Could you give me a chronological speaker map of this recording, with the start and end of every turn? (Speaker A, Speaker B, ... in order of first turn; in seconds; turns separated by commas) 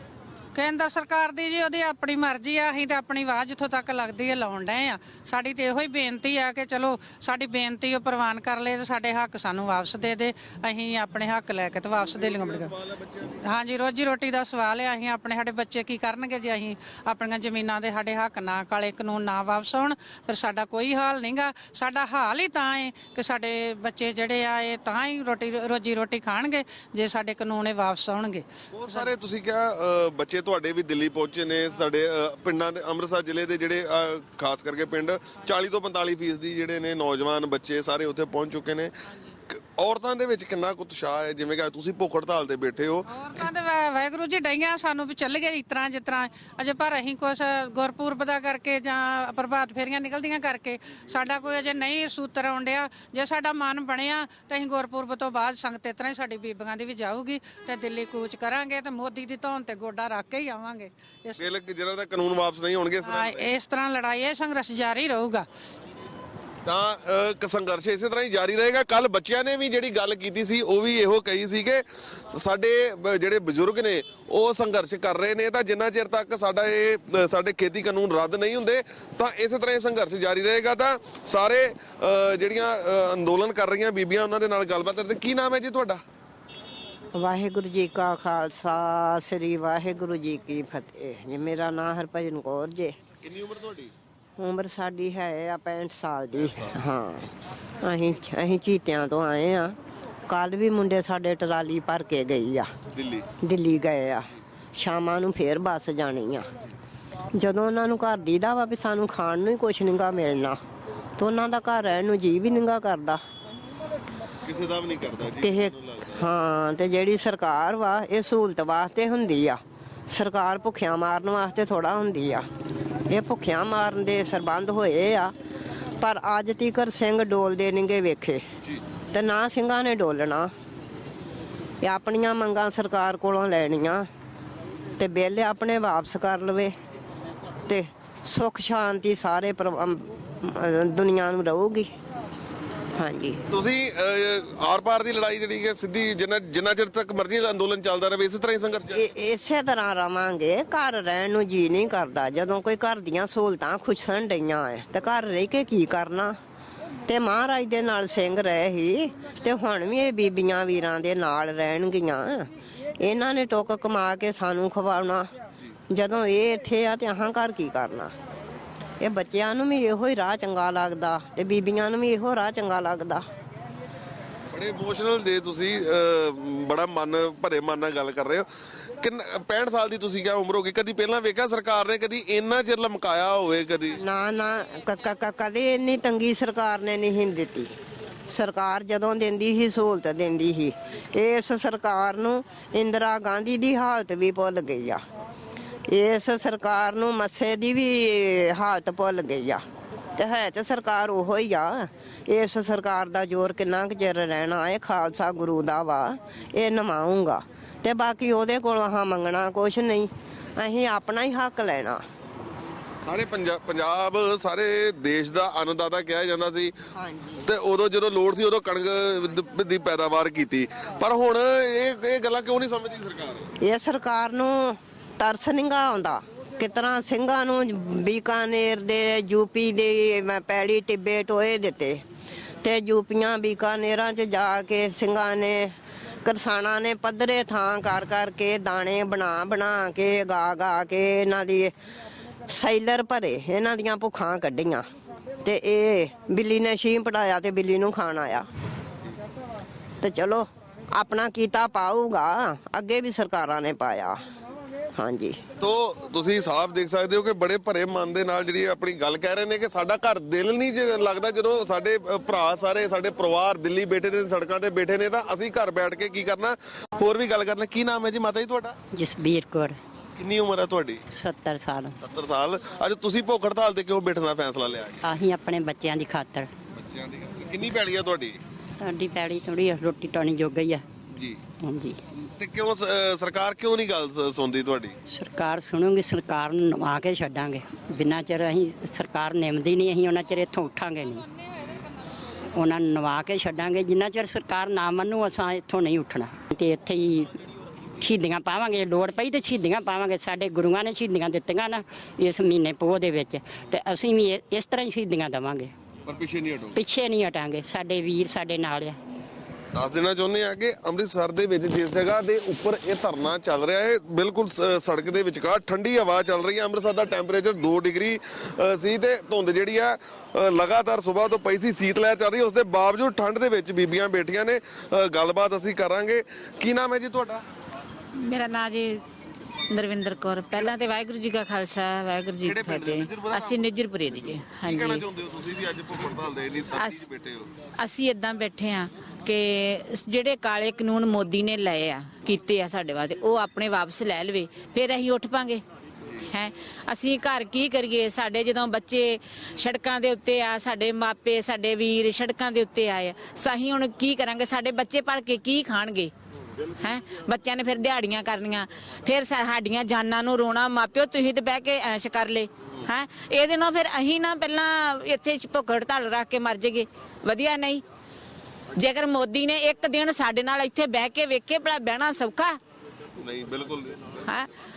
Speaker A: 0.5-12.7, Speaker B: 12.0-13.4, Speaker A: 13.4-29.1, Speaker B: 28.7-38.9, Speaker B: 39.5-43.1, Speaker A: 43.1-61.4, Speaker B: 61.4-63.5, Speaker A: 63.0-65.5, Speaker B: 66.7-86.0, Speaker C: 87.1-92.9, Speaker B: 93.2-93.9, Speaker C: 94.4-97.3, Speaker C: 97.8-99.7, Speaker C: 100.3-102.7, Speaker B: 102.9-103.3, Speaker C: 103.4-106.5, Speaker C: 107.4-110.6, Speaker C: 111.2-113.2, Speaker B: 114.4-116.2, Speaker C: 115.4-122.5, Speaker C: 123.1-125.3, Speaker C: 126.0-128.4, Speaker C: 129.1-130.5, Speaker C: 131.8-134.0, Speaker C: 135.0-136.7, Speaker C: 137.7-141.9, Speaker C: 142.9-143.4, Speaker B: 143.5-149.0, Speaker C: 148.9-156.3, Speaker C: 157.1-162.5, Speaker C: 163.0-165.3, Speaker C: 165.9-168.1, Speaker C: 169.0-173.2, Speaker B: 174.5-178.4, Speaker B: 179.0-184.0, Speaker C: 184.0-187.7, Speaker C: 188.3-195.0, Speaker C: 195.9-199.6, Speaker C: 200.2-212.0, Speaker B: 213.0-216.7, Speaker C: 216.9-217.4, Speaker B: 217.4-223.5, Speaker C: 223.6-232.0, Speaker C: 232.6-235.7, Speaker C: 236.2-241.7, Speaker C: 242.5-244.8, Speaker C: 245.4-248.4, Speaker C: 250.0-254.2, Speaker C: 254.9-255.4, Speaker B: 255.6-268.7, Speaker D: 268.9-269.8, Speaker B: 270.2-271.0, Speaker D: 271.1-272.0, Speaker B: 272.0-275.0, Speaker D: 275.0-276.5, Speaker B: 276.8-278.4, Speaker D: 278.7-280.8, Speaker D: 281.6-282.0, Speaker B: 282.2-284.9, Speaker D: 285.0-291.3, Speaker D: 292.5-297.3, Speaker D: 298.0-305.7, Speaker B: 306.1-306.8, Speaker D: 306.7-309.0, Speaker B: 309.7-327.4, Speaker E: 328.2-329.0, Speaker E: 329.7-335.0, Speaker B: 332.4-337.5, Speaker E: 336.7-337.1, Speaker E: 337.8-345.6, Speaker E: 346.3-356.1, Speaker E: 356.8-367.8, Speaker E: 368.7-372.6, Speaker B: 373.2-374.4